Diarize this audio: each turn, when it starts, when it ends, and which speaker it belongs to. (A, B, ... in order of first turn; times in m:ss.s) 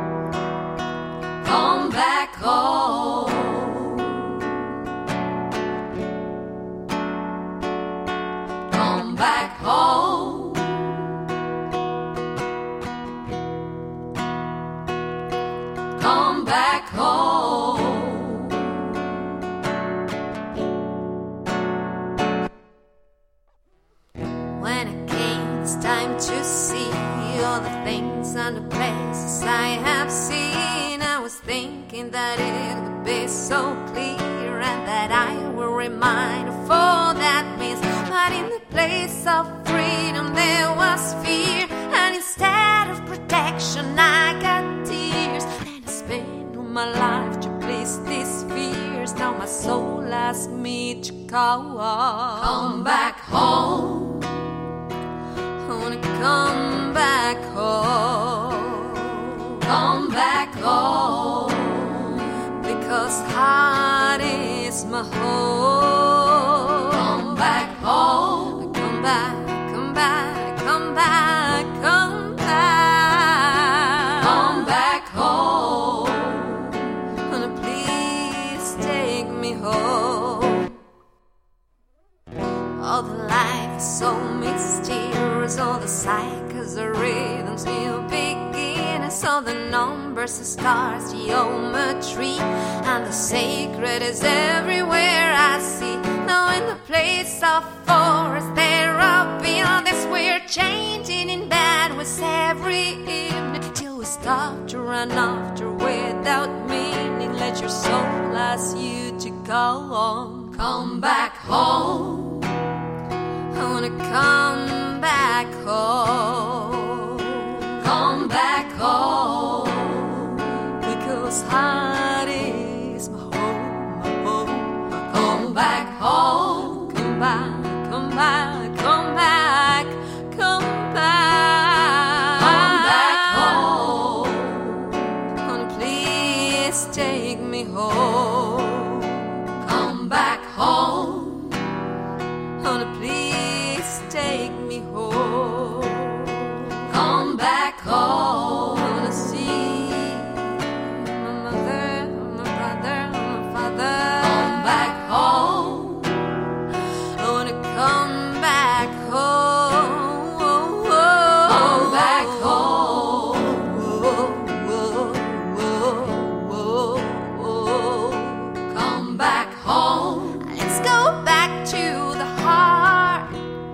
0:01.4-0:04.7 A
0:08.7-0:11.2 A
0:15.9-0:19.0 A
0:24.5-0:54.6 A
0:55.6-1:20.8 A
1:22.7-1:52.7 A
1:53.5-2:21.8 A
2:22.6-2:53.5 A